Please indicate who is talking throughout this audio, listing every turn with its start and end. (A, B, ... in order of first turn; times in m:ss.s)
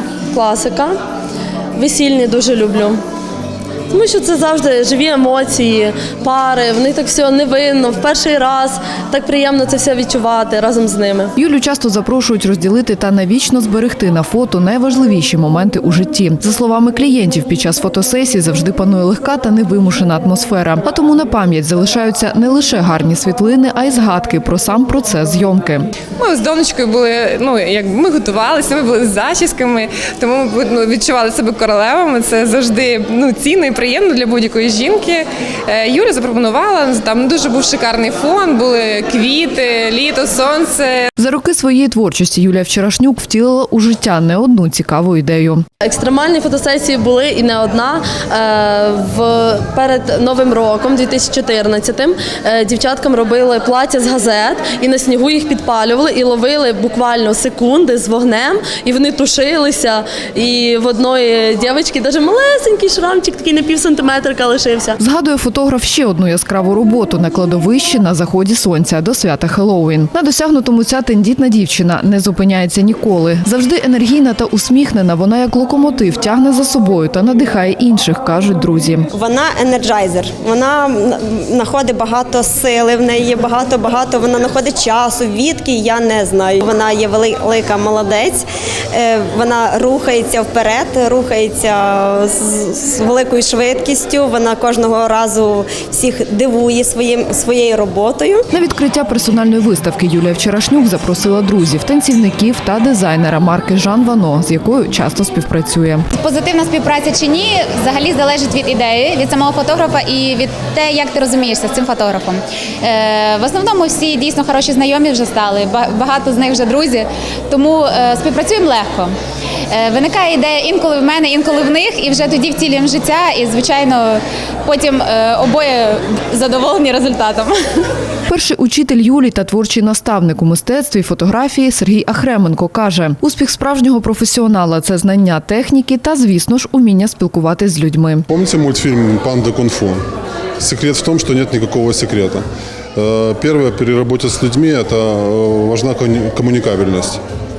0:00.3-0:00.9 A
0:01.8-0:03.0 A
0:03.9-0:11.3 A
0:11.4-0:25.9 B
0:26.2-0:41.1 C
0:41.2-0:45.6 B
0:45.8-1:05.0 A
1:05.0-1:19.1 B
1:19.1-1:38.4 D
1:38.5-1:46.0 B
1:46.1-1:59.1 E
1:59.7-2:07.8 E
2:08.3-2:18.2 B
2:18.3-2:20.0 F
2:20.6-2:22.4 F
2:23.0-2:27.2 F